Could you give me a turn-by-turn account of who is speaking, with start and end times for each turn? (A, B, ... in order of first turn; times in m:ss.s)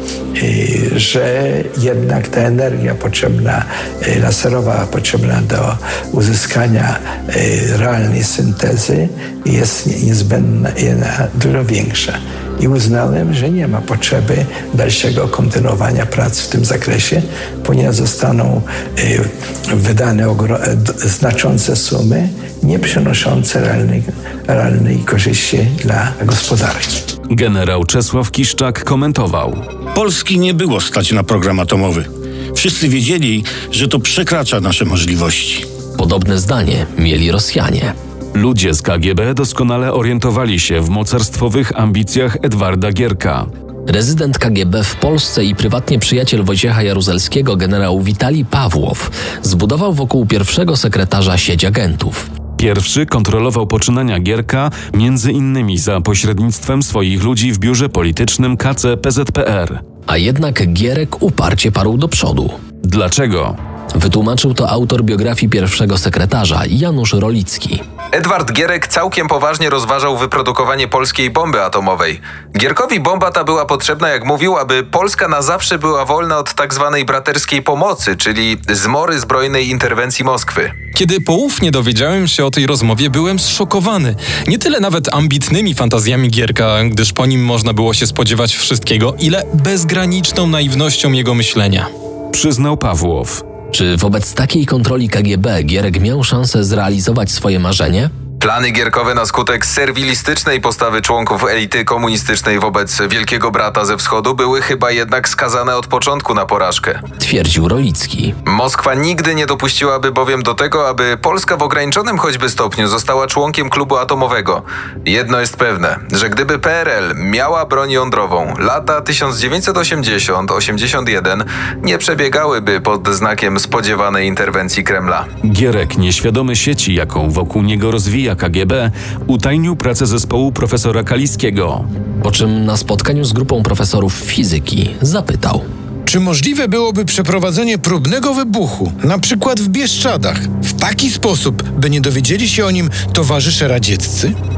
0:00.4-0:19.2 A
0:19.7-0:26.9 A
0:27.3-0:29.6 B
0:29.9-0:35.7 C
0:36.0-0:37.9 D
0:38.3-0:43.5 B
0:43.9-0:52.3 D
0:52.6-0:59.8 B
1:00.1-1:02.6 D
1:02.8-1:03.6 B
1:04.0-1:07.8 D
1:08.1-1:20.9 E
1:20.9-1:31.9 F
1:32.3-1:33.4 B
1:33.7-1:38.1 D
1:38.4-1:47.0 E
1:47.2-1:48.4 D
1:48.5-2:05.3 E
2:05.4-2:11.9 B
2:12.2-2:15.6 D
2:16.1-2:24.3 G